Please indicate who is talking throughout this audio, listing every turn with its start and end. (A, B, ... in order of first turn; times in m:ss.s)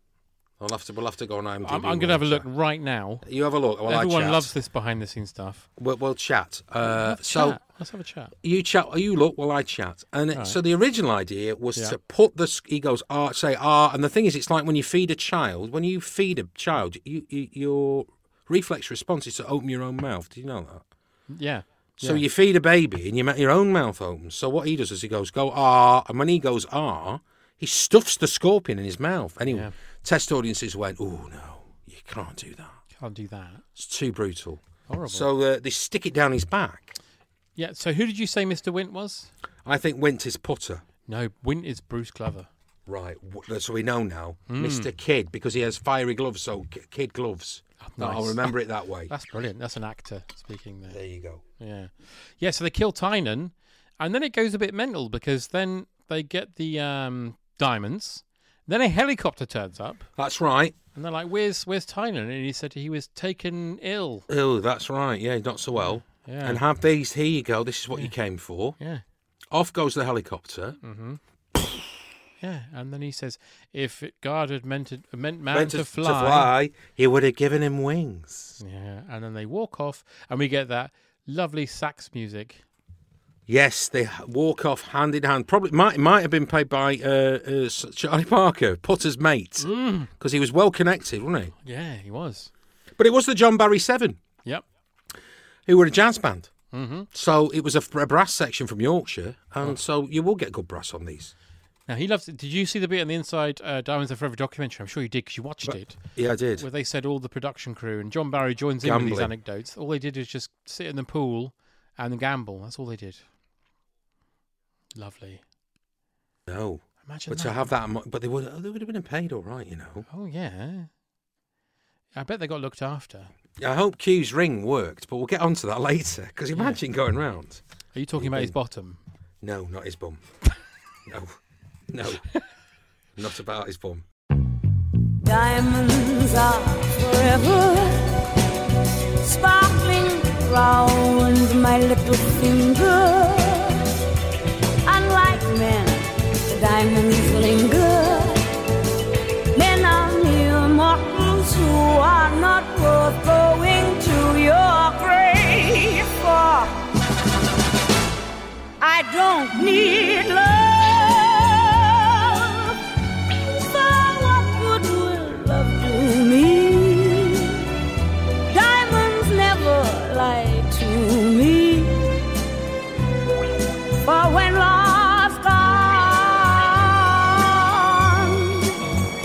0:00.6-0:02.5 A
0:01.6-0:03.3 B
0:03.2-0:04.5 A
0:03.8-0:05.7 B
0:05.8-0:07.6 A
0:06.8-0:08.3 B
0:08.4-0:20.8 A
0:10.3-0:10.6 B
0:21.3-0:22.2 B
0:22.0-0:32.8 A
0:29.5-0:29.7 B
0:33.0-0:33.6 B
0:33.8-0:37.0 A
0:34.9-0:35.3 B
0:37.6-0:39.3 B
0:39.6-0:40.8 A
0:41.0-0:42.5 B
0:42.9-0:49.1 A
0:44.5-0:44.9 B
0:47.8-0:51.0 B
0:50.9-0:51.4 A
0:51.6-1:00.1 B
1:00.2-1:00.7 A
1:00.9-1:04.3 B
1:04.3-1:08.8 A
1:06.1-1:06.6 B
1:09.5-1:10.8 A
1:10.8-1:11.2 B
1:12.4-1:16.5 B
1:15.5-1:18.6 A
1:18.6-1:22.6 B
1:23.5-1:31.5 A
1:29.6-1:30.1 B
1:31.6-1:32.5 B
1:33.0-1:34.2 A
1:35.7-1:36.5 A
1:36.7-1:37.1 B
1:37.1-1:41.3 A
1:41.9-1:46.0 B
1:45.6-1:46.6 A
1:46.6-1:53.2 B
1:48.8-1:49.3 A
1:55.0-1:55.4 B
1:56.5-2:00.1 A
1:57.0-1:57.7 B
2:00.1-2:00.9 B
2:02.1-2:03.3 B
2:03.6-2:07.6 A
2:06.5-2:06.8 B
2:07.9-2:09.0 B
2:08.2-2:08.5 A
2:09.4-2:10.2 A
2:11.0-2:11.4 A
2:11.9-2:12.2 A
2:13.2-2:14.0 A
2:15.2-2:18.1 C
2:19.2-2:23.8 C
2:24.8-2:28.4 C
2:29.5-2:36.8 C
2:38.8-2:42.8 C
2:43.6-2:47.6 C
2:48.5-2:52.2 C
2:54.0-2:58.8 C